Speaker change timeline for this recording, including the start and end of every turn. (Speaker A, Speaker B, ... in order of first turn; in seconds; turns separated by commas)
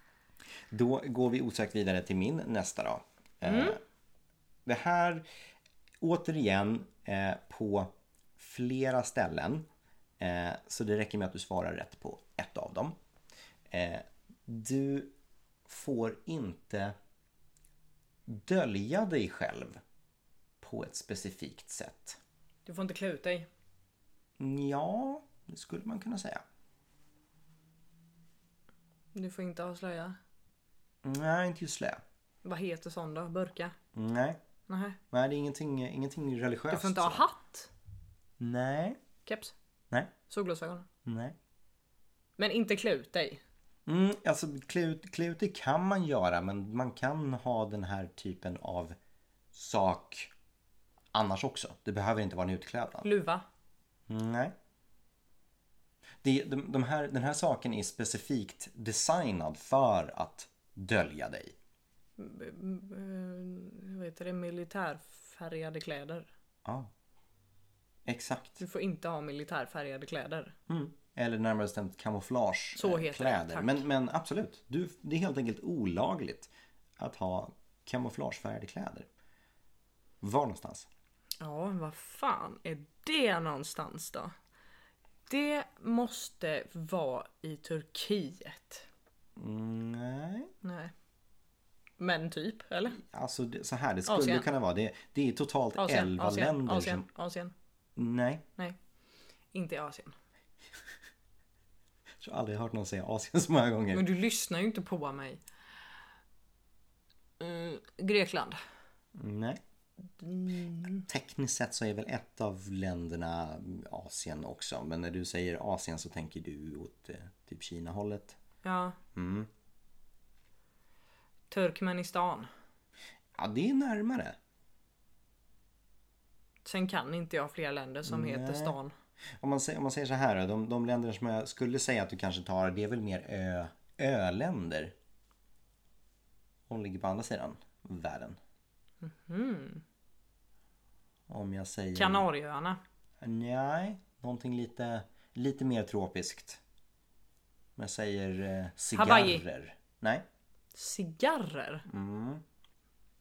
Speaker A: 0.7-3.8, Speaker B: 3.4-3.8, Speaker A: 4.7-5.2, Speaker A: 6.0-9.7, Speaker A: 10.2-12.9, Speaker A: 13.7-15.1, Speaker A: 15.7-16.9, Speaker A: 18.3-19.8, Speaker A: 20.6-22.2, Speaker B: 22.6-23.5, Speaker A: 24.4-26.4, Speaker B: 29.1-30.2, Speaker A: 31.0-32.0, Speaker B: 32.4-33.8, Speaker A: 33.9-34.4, Speaker B: 34.7-35.0, Speaker A: 35.1-37.2, Speaker B: 36.7-37.7, Speaker A: 38.4-39.0, Speaker B: 39.2-39.5, Speaker B: 40.3-40.9, Speaker A: 41.0-41.3, Speaker B: 42.4-43.4, Speaker A: 43.9-49.0, Speaker A: 49.5-50.3, Speaker A: 51.1-53.1, Speaker B: 53.0-53.4, Speaker A: 54.1-54.5, Speaker A: 56.2-61.5, Speaker B: 62.2-66.3, Speaker A: 66.6-66.9, Speaker A: 68.0-68.6, Speaker B: 68.6-70.5, Speaker A: 70.7-79.1, Speaker B: 72.8-73.8, Speaker A: 80.2-80.9, Speaker B: 81.4-84.3, Speaker B: 85.3-88.8, Speaker A: 89.4-90.5, Speaker B: 90.6-90.9, Speaker B: 92.0-93.0, Speaker A: 92.9-97.0, Speaker B: 94.1-94.5, Speaker B: 95.8-97.5, Speaker A: 98.0-98.4, Speaker B: 99.5-100.1, Speaker A: 102.2-104.1, Speaker B: 103.9-105.4, Speaker B: 107.4-108.6, Speaker A: 109.2-109.6, Speaker B: 110.2-111.0, Speaker A: 111.0-118.4, Speaker B: 118.6-119.0, Speaker A: 119.1-119.5, Speaker B: 121.5-122.5, Speaker A: 123.3-124.4, Speaker B: 126.6-128.9, Speaker A: 128.0-128.8, Speaker A: 129.4-134.9, Speaker A: 136.7-138.4, Speaker B: 139.0-139.8, Speaker A: 141.3-142.2, Speaker B: 141.9-142.8, Speaker A: 143.2-146.6, Speaker A: 147.8-150.2, Speaker B: 148.9-149.4, Speaker B: 150.7-151.8, Speaker A: 151.9-152.4